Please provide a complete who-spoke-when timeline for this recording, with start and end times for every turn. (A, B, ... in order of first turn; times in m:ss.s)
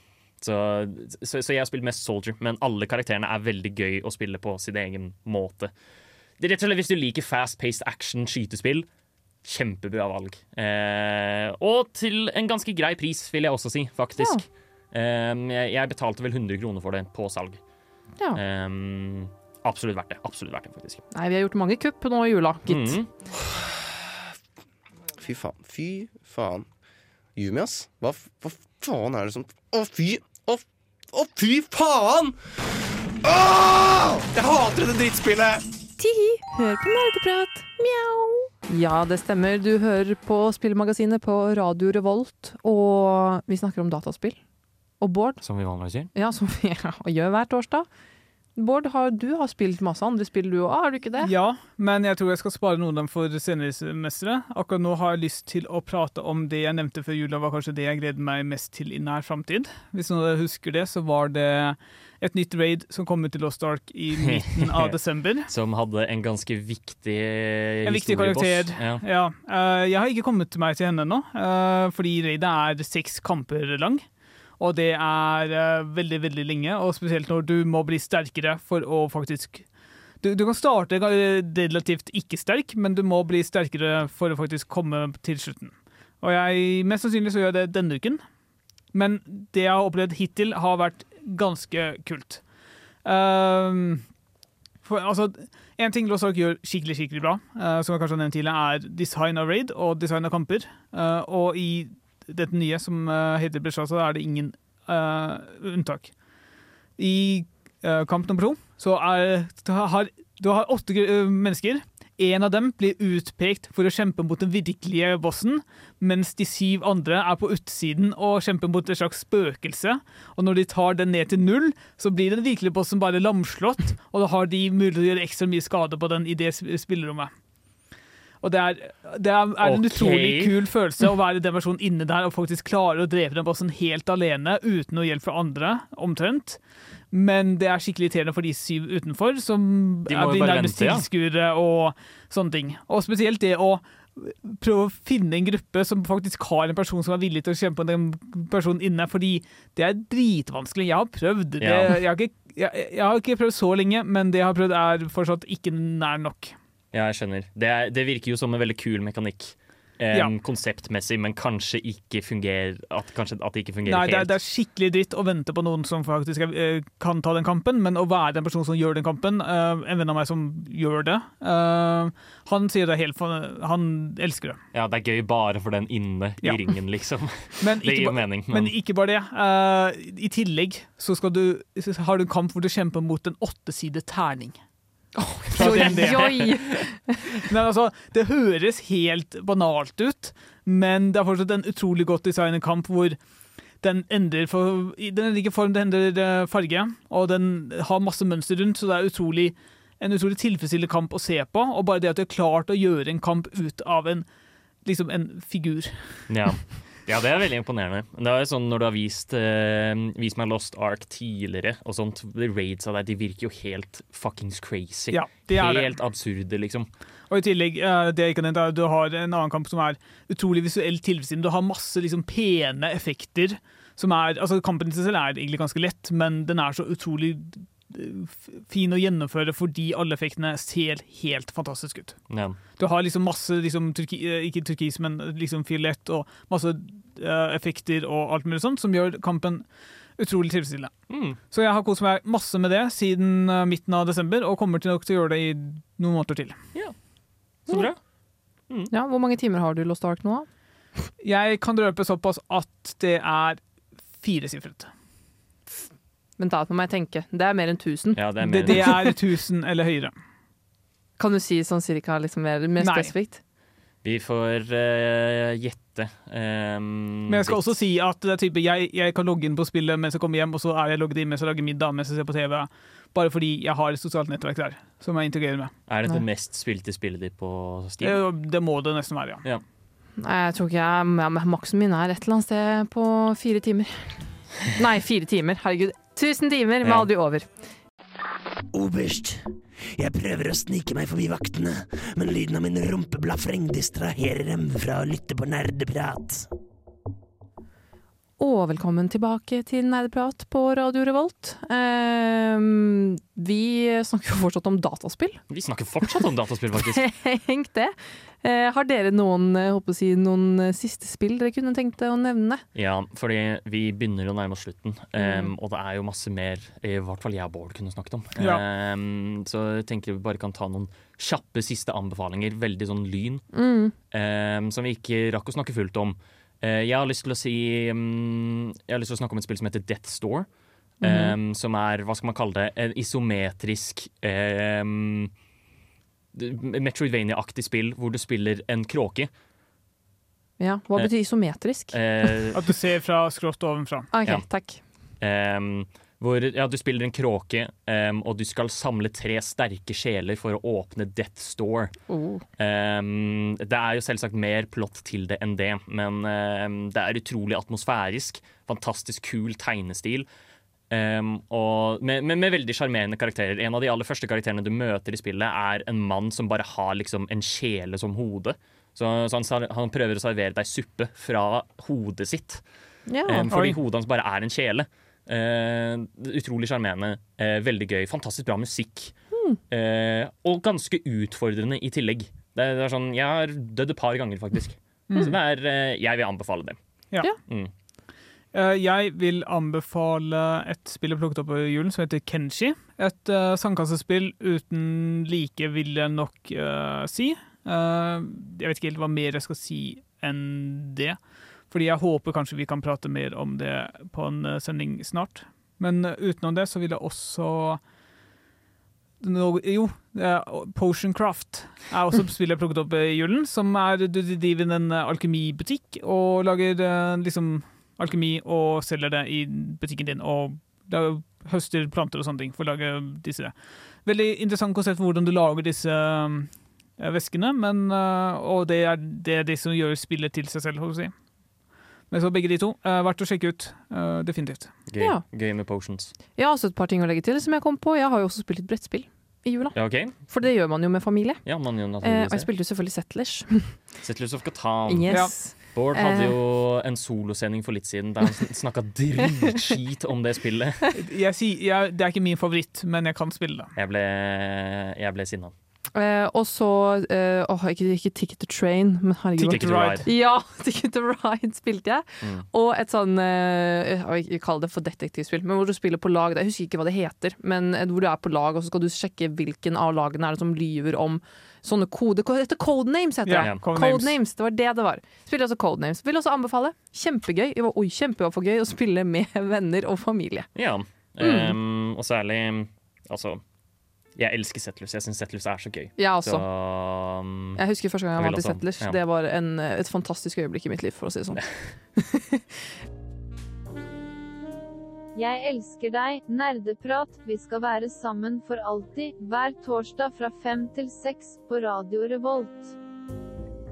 0:00.4-0:05.7 A
0:06.4-0:08.9 A
0:09.4-0:17.6 A
0:18.3-0:21.0 A
0:21.1-0:23.0 B
0:22.7-0:23.1 A
0:25.2-0:26.7 C
0:27.4-0:32.4 C
0:33.2-0:35.6 C
0:36.0-0:37.8 B
0:38.7-0:44.4 B
0:45.0-0:45.4 B
0:45.4-0:46.1 A
0:46.1-0:47.9 B
0:48.6-0:51.3 B
0:51.2-1:05.5 D
1:04.2-1:09.0 A
1:07.8-1:14.0 D
1:14.6-1:19.6 D
1:20.2-1:28.2 D
1:28.9-1:32.4 D
1:33.0-1:34.0 D
1:34.8-1:46.1 D
1:47.0-2:07.3 D
2:08.4-2:16.6 D
2:09.6-2:10.6 A
2:17.1-2:36.5 D
2:20.1-2:21.0 A
2:31.6-2:31.9 A
2:36.9-2:44.3 A
2:43.8-2:54.6 D
2:54.7-2:58.7 A
2:56.4-2:56.7 D
2:57.6-3:04.6 D
3:05.1-3:07.2 B
3:05.5-3:06.3 D
3:05.6-3:06.8 A
3:07.4-3:13.2 D
3:13.8-3:24.2 D
3:24.8-3:26.2 D
3:26.3-3:36.9 A
3:35.1-3:35.9 D
3:37.3-3:52.2 D
3:52.3-3:52.6 A
3:52.8-3:59.6 D
4:00.2-4:00.9 D
4:01.1-4:01.4 A
4:01.5-4:06.6 D
4:07.6-4:08.0 A
4:08.9-4:10.5 B
4:11.2-4:13.6 D
4:14.2-4:14.9 D
4:16.4-4:18.2 B
4:18.1-4:18.9 A
4:18.4-4:20.1 D
4:21.2-4:23.4 B
4:22.8-4:23.1 D
4:24.0-4:27.8 A
4:27.3-4:35.7 D
4:35.9-4:38.2 A
4:38.0-4:39.4 D
4:40.2-4:44.2 B
4:44.7-4:47.5 B
4:46.8-4:47.1 A
4:48.7-4:56.4 E
4:58.4-5:05.4 B
5:05.5-5:07.0 A
5:06.8-5:12.6 B
5:12.7-5:23.4 A
5:15.2-5:15.5 B
5:18.4-5:18.6 D
5:23.5-5:23.9 B
5:24.1-5:30.5 A
5:31.0-5:35.3 A
5:31.0-5:31.3 B
5:36.3-5:39.3 A
5:40.6-5:42.2 B
5:41.9-5:42.6 A
5:42.5-5:44.1 D
5:44.1-5:44.8 B
5:45.2-5:52.0 A
5:52.1-5:52.4 B
5:52.6-6:00.3 A
6:00.9-6:12.6 A
6:13.1-6:13.5 B
6:13.2-6:19.1 A
6:13.5-6:13.8 D
6:19.3-6:19.6 B
6:19.7-6:26.8 A
6:25.1-6:25.3 D
6:27.5-6:27.7 A
6:28.5-6:41.2 D
6:41.7-6:47.8 D
6:49.2-7:03.5 D
7:04.0-7:11.1 D
7:12.1-7:14.7 D
7:14.9-7:16.1 A
7:16.4-7:21.4 B
7:19.7-7:20.1 A
7:21.4-7:22.5 A
7:22.0-7:23.8 B
7:24.0-7:30.8 A
7:24.9-7:26.3 B
7:31.0-7:33.7 D
7:33.8-7:35.5 A
7:35.9-8:00.5 B
7:39.4-7:40.0 D
7:39.4-7:40.0 A
7:53.2-7:54.1 D
8:00.5-8:03.4 A
8:01.2-8:01.5 B
8:04.2-8:07.6 A
8:06.0-8:06.4 B
8:07.6-8:11.4 B
8:08.2-8:09.0 A
8:12.0-8:12.4 B
8:15.2-8:22.7 F